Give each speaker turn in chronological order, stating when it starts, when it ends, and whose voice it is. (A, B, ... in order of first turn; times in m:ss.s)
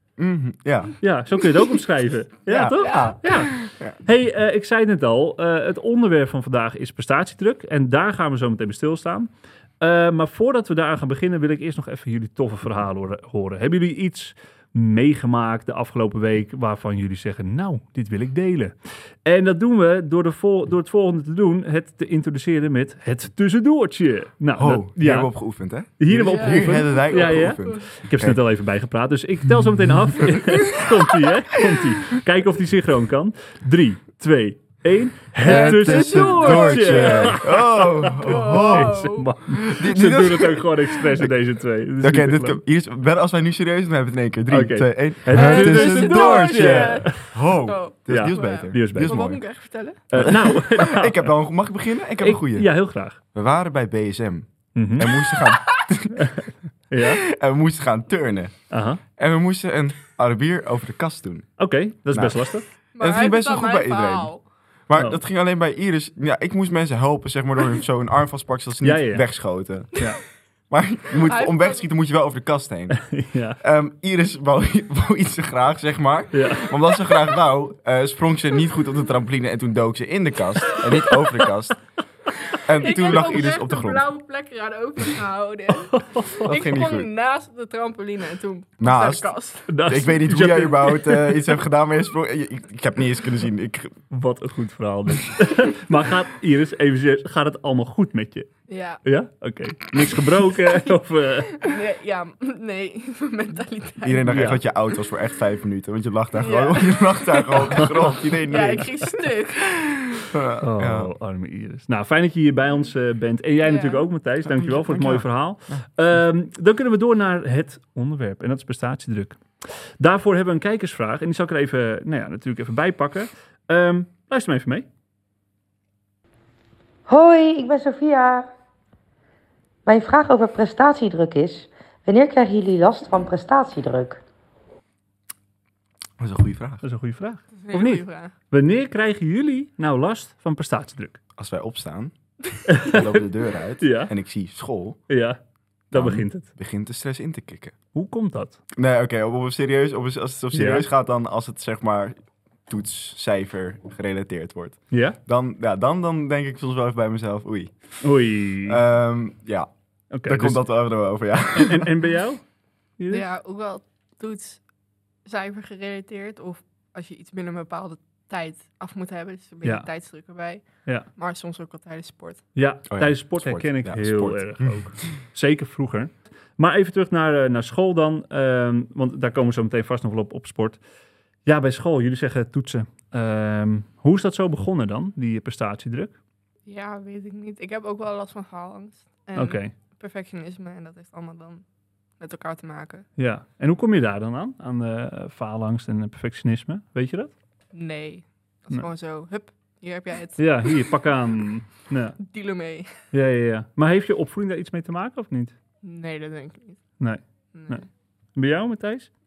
0:00.2-0:01.0 A
0:01.0-0:25.3 B
0:02.4-0:04.0 A
0:02.8-0:03.1 C
0:24.6-0:28.4 A
0:26.0-0:42.6 B
0:26.3-0:27.8 C
0:30.2-0:30.7 A
0:35.4-0:41.3 A
0:35.4-0:39.3 C
0:42.0-0:49.4 A
0:44.5-0:47.3 B
0:45.3-0:50.3 C
0:48.1-0:49.2 B
0:50.1-0:51.3 B
0:50.1-0:52.7 A
0:52.2-0:53.2 B
0:53.3-0:56.4 A
0:54.7-0:55.1 B
0:55.1-0:55.9 C
0:56.1-0:57.2 B
0:56.9-0:58.5 A
0:58.7-0:59.0 B
0:59.2-1:01.5 A
1:01.6-1:02.6 B
1:02.1-1:02.4 A
1:03.0-1:04.4 C
1:03.0-1:04.3 A
1:04.9-1:10.0 A
1:08.8-1:09.2 B
1:09.9-1:10.2 B
1:10.7-1:21.8 A
1:11.2-1:11.9 C
1:13.0-1:13.6 B
1:16.3-1:16.7 B
1:22.6-1:29.7 C
1:22.6-1:24.1 A
1:25.9-1:26.5 B
1:26.4-1:27.1 A
1:28.8-1:29.3 A
1:29.7-1:31.4 B
1:29.8-1:34.0 A
1:34.1-1:38.5 B
1:38.7-1:39.0 C
1:39.0-1:41.7 B
1:41.6-1:44.5 C
1:44.0-1:48.9 A
1:44.3-1:44.6 B
1:46.3-1:50.3 C
1:50.3-1:51.1 A
1:50.6-2:04.8 B
1:53.6-1:54.1 C
1:54.4-1:55.8 A
2:07.1-2:08.5 D
2:09.8-2:14.2 D
2:16.2-2:16.8 A
2:16.8-2:21.2 B
2:17.6-2:18.3 C
2:21.4-2:22.1 A
2:22.7-2:23.2 B
2:22.8-2:25.0 A
2:23.8-2:24.1 B
2:25.1-2:25.4 B
2:25.9-2:26.5 B
2:25.9-2:27.7 A
2:27.9-2:28.6 B
2:28.7-2:32.2 A
2:30.5-2:30.8 B
2:32.7-2:38.0 A
2:34.9-2:35.2 B
2:38.0-2:38.8 B
2:38.6-2:39.7 A
2:40.1-2:40.7 B
2:40.2-2:41.9 A
2:41.5-2:42.4 B
2:43.0-2:43.2 B
2:43.1-2:44.6 C
2:45.2-2:52.4 C
2:52.6-3:00.8 B
2:52.9-2:55.0 A
3:01.4-3:06.1 B
3:06.7-3:11.6 C
3:09.3-3:09.7 B
3:12.2-3:13.0 C
3:13.2-3:17.3 B
3:17.7-3:20.9 C
3:20.4-3:22.2 B
3:22.2-3:23.0 C
3:23.1-3:25.5 B
3:25.8-3:26.8 C
3:27.0-3:29.1 B
3:27.5-3:27.8 C